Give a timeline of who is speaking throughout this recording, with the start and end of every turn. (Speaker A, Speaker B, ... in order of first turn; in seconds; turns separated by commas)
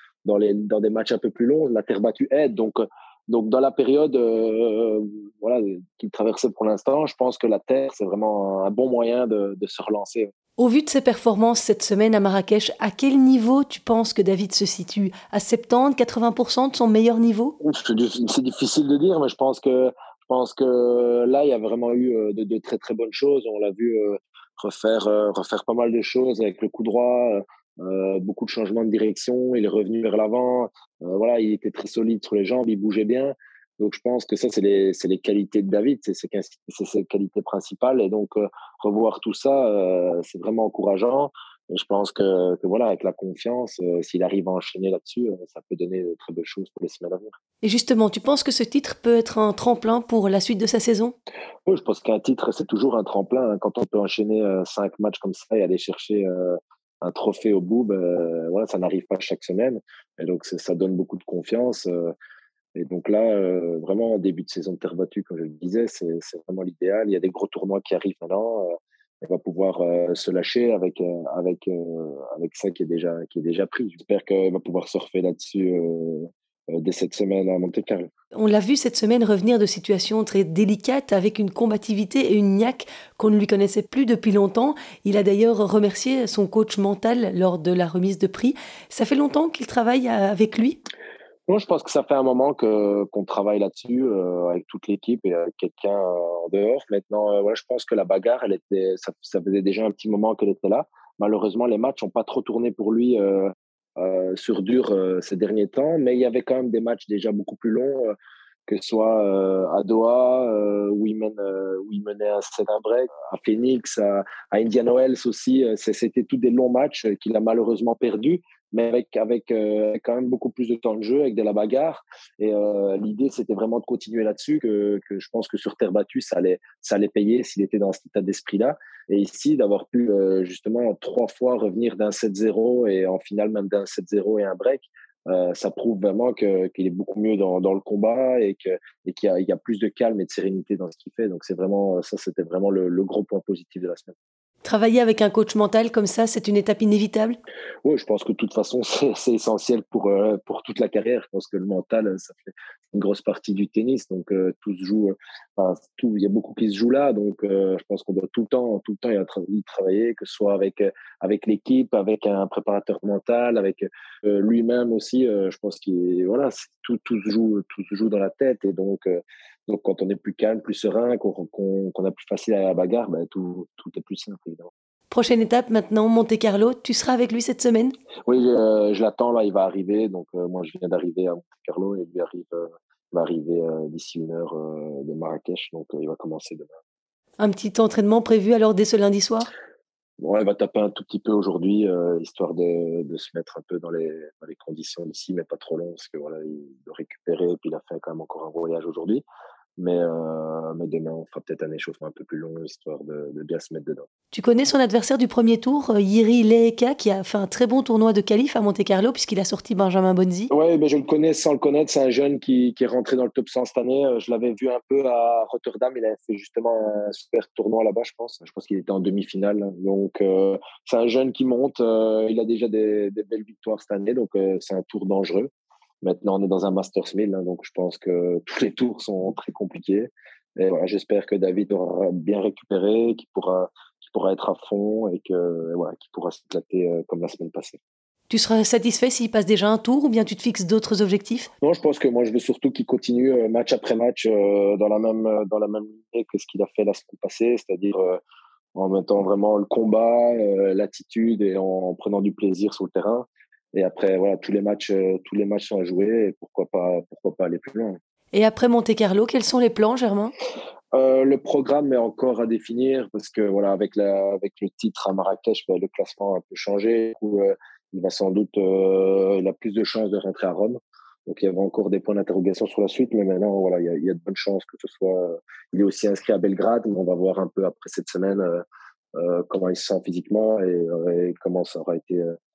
Speaker A: 0.2-10.3, Speaker B: 10.6-17.5, Speaker A: 17.6-47.3, Speaker B: 47.6-51.1, Speaker A: 51.6-62.1, Speaker A: 62.8-78.1, Speaker B: 78.3-90.8, Speaker A: 91.5-108.1, Speaker A: 108.7-144.1, Speaker B: 144.6-147.4, Speaker A: 147.8-174.7, Speaker B: 175.1-177.9, Speaker A: 178.3-186.7, Speaker B: 187.4-189.5, Speaker A: 190.2-199.2, Speaker A: 199.8-204.1, Speaker B: 204.3-210.5, Speaker A: 210.5-225.5, Speaker A: 226.0-237.8, Speaker B: 238.3-241.5, Speaker A: 241.6-248.2, Speaker A: 248.7-258.0, Speaker B: 258.3-260.3, Speaker A: 260.9-278.6, Speaker A: 279.1-282.4